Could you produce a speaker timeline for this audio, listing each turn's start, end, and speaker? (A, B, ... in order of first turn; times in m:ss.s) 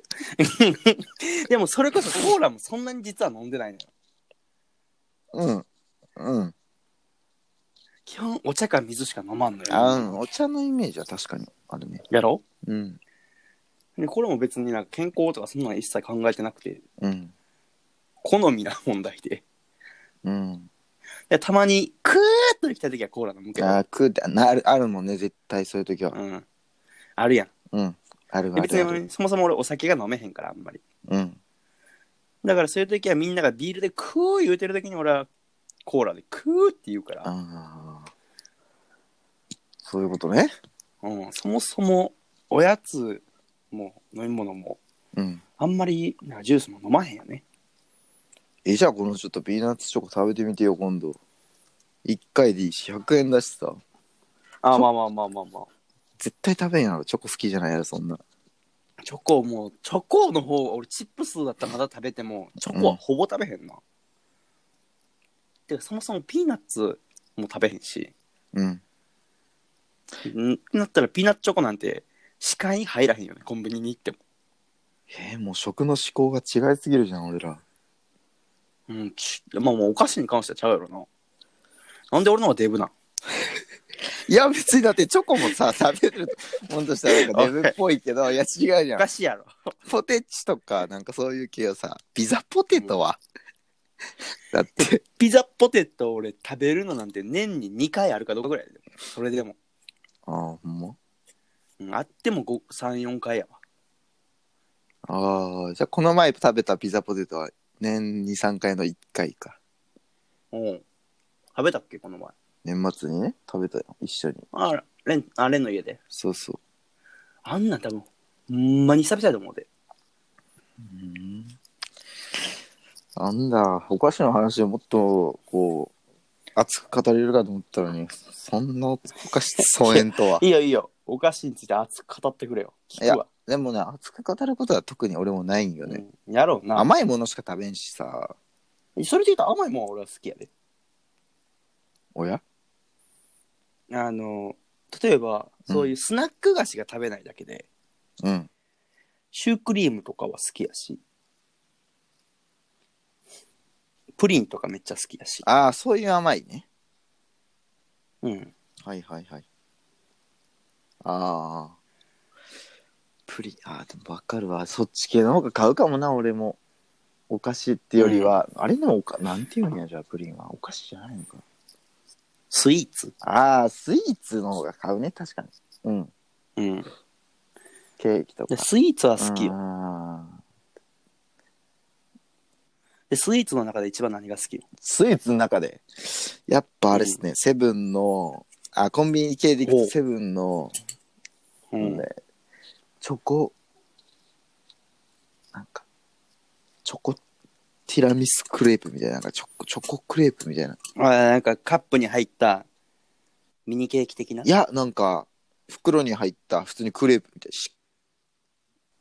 0:00.4-0:03.9 A
0:05.3-0:05.6 B
0:06.2-0:06.5 B
0:08.1-0:10.2 A
0:09.7-0:12.0 B
0:12.1-0:12.4 A
0:12.6-0:13.0 B
0:14.0-0:16.8 A
0:17.0-0:17.3 B
0:18.2-0:19.4 A
0:20.2-0:20.7 B
0:21.3-0:23.8 A
0:23.6-0:26.2 B
0:26.1-0:26.4 A
0:27.2-0:27.5 A
0:27.7-0:29.0 B
0:28.6-0:30.8 A
0:31.1-0:31.4 B
0:32.4-0:35.3 A
0:35.9-0:37.3 A
0:37.2-0:38.1 B
0:39.8-0:40.5 B
0:41.0-0:44.8 A
0:45.2-0:45.4 B
0:45.6-0:47.4 A
0:48.6-0:51.2 B
0:52.0-0:53.8 B
0:54.6-0:55.7 A
0:56.2-0:58.2 B
0:59.0-1:03.8 A
1:02.6-1:03.0 B
1:05.7-1:08.1 A
1:08.5-1:08.8 B
1:10.2-1:14.2 A
1:15.1-1:17.6 B
1:18.9-1:21.1 A
1:22.1-1:22.9 A
1:24.3-1:29.1 B
1:27.1-1:27.7 A
1:29.0-1:29.7 A
1:29.9-1:33.2 B
1:34.5-1:35.0 B
1:34.8-1:39.6 A
1:40.3-1:41.0 B
1:41.8-1:43.6 A
1:45.1-1:49.6 B
1:50.5-1:50.8 A
1:51.6-1:52.3 A
1:52.6-1:54.4 B
1:54.5-1:56.0 A
1:56.1-1:56.6 B
1:57.4-1:59.7 A
2:00.8-2:01.6 B
2:03.2-2:05.9 B
2:06.6-2:10.4 B
2:09.7-2:13.3 A
2:13.0-2:16.0 B
2:15.8-2:16.9 A
2:16.7-2:18.3 B
2:19.0-2:20.5 A
2:22.2-2:22.4 B
2:23.9-2:27.7 A
2:25.7-2:25.9 B
2:28.2-2:28.5 B
2:29.3-2:31.0 A
2:34.2-2:35.4 A
2:35.4-2:36.7 B
2:38.2-2:38.5 A
2:38.8-2:39.4 B
2:41.0-2:41.8 B
2:43.3-2:46.6 B
2:47.3-2:51.4 B
2:48.0-2:48.4 A
2:52.5-2:53.1 A
2:53.2-2:56.1 B
2:56.6-2:56.9 A
2:58.0-3:00.4 B
2:58.5-2:59.6 A
3:03.1-3:04.6 A
3:04.8-3:10.8 B
3:06.9-3:07.2 A
3:09.6-3:09.9 A
3:11.7-3:12.1 A
3:11.8-3:12.1 B
3:13.0-3:13.5 B
3:15.5-3:15.8 B
3:16.8-3:17.2 B
3:17.9-3:20.8 B
3:21.0-3:22.7 A
3:23.7-3:24.5 A
3:24.4-3:27.7 B